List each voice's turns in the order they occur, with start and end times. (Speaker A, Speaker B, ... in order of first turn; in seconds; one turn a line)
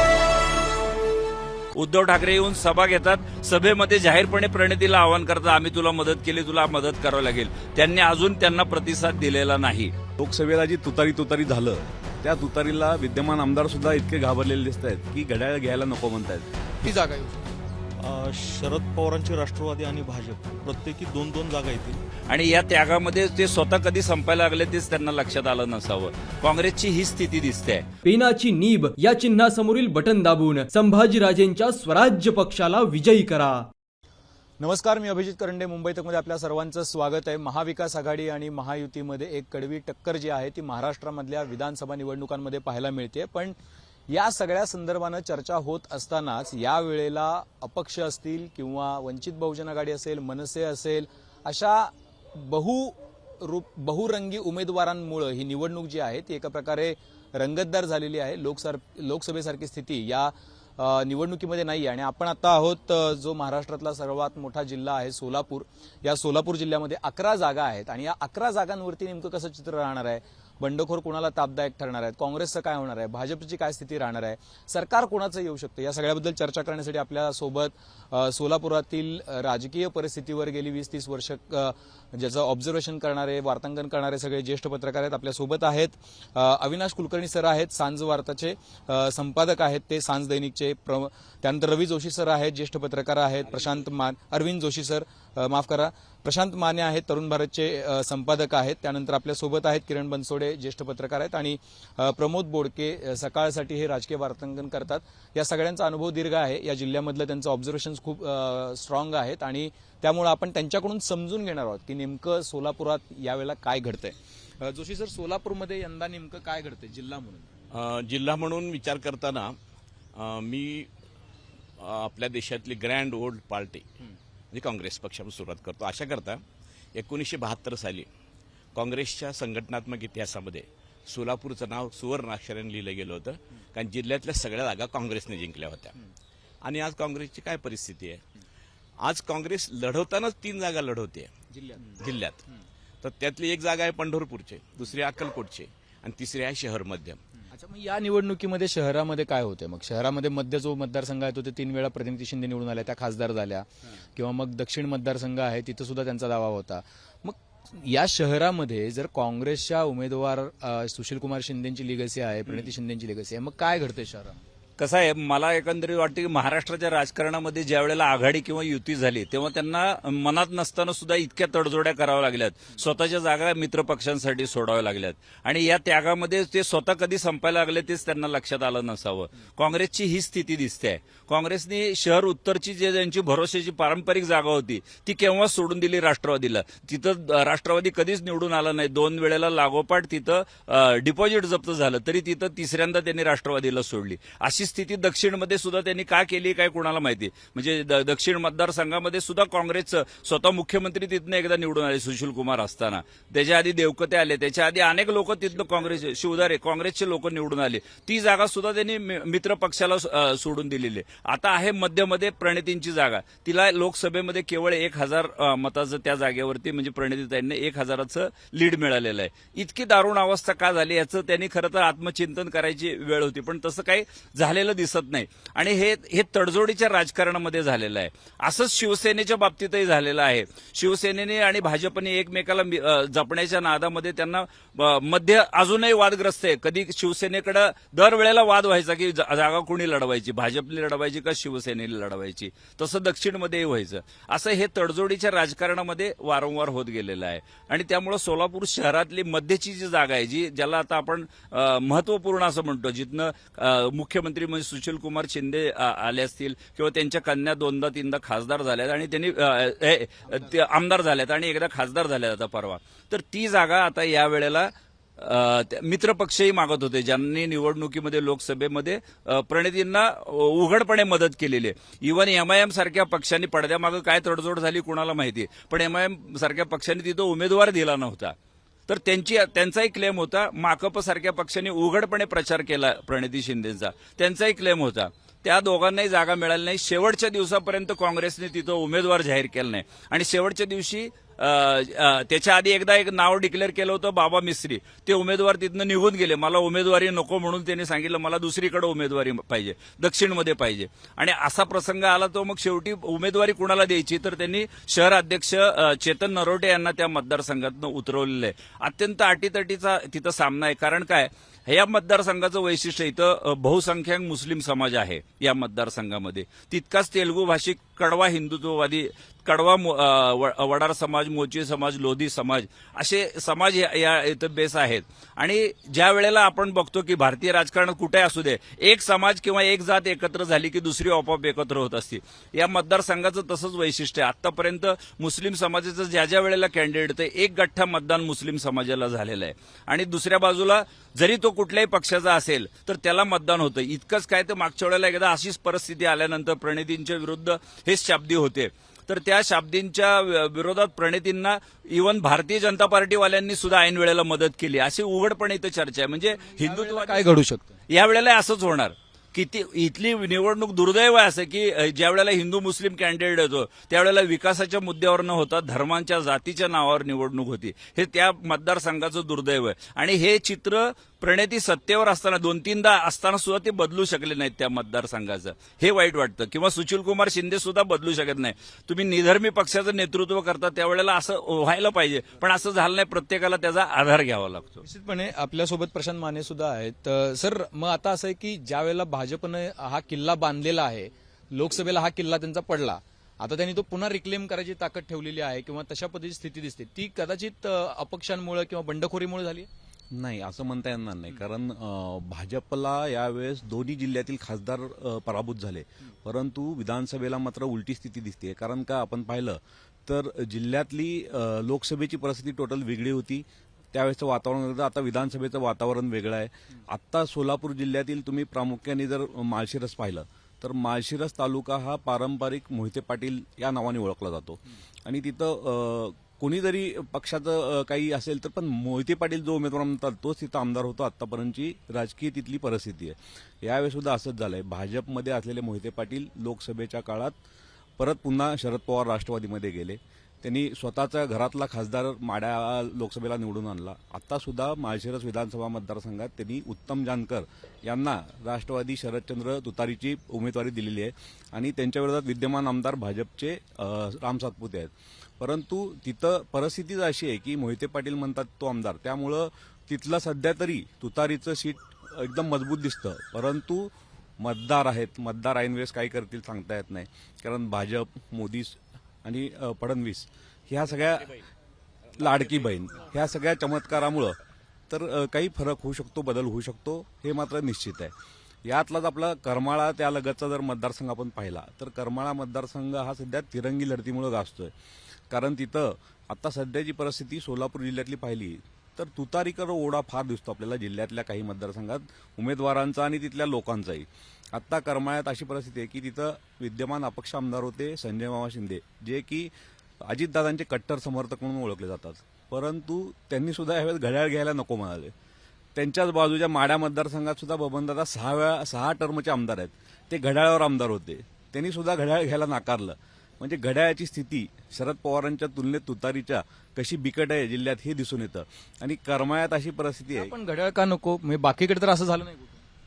Speaker A: 1.8-9.9
Speaker B: 10.2-16.5
Speaker C: 16.8-17.6
Speaker D: 18.0-22.0
Speaker A: 22.3-27.9
Speaker E: 28.0-33.7
Speaker C: 34.6-43.5
Speaker C: 44.1-117.5
Speaker F: 117.7-119.5
Speaker F: 120.2-120.9
Speaker F: 121.8-123.9
Speaker F: 124.5-126.4
Speaker F: 127.0-128.1
Speaker F: 128.8-135.9
Speaker F: 136.7-138.2
Speaker F: 139.0-141.3
Speaker C: 141.5-141.9
Speaker F: 142.0-142.4
Speaker F: 143.0-147.2
Speaker C: 147.5-164.4
Speaker A: 164.8-278.4
Speaker A: 278.9-357.2
Speaker C: 356.5-357.8
Speaker A: 357.9-384.8
Speaker C: 384.8-399.7
Speaker B: 400.1-437.4
Speaker B: 438.0-471.3
Speaker F: 471.0-471.3
Speaker F: 472.1-472.7
Speaker B: 472.2-474.4
Speaker B: 474.9-478.1
Speaker B: 478.6-484.7
Speaker B: 485.3-499.5
Speaker B: 500.0-505.1
Speaker B: 505.8-520.3
Speaker C: 520.1-522.6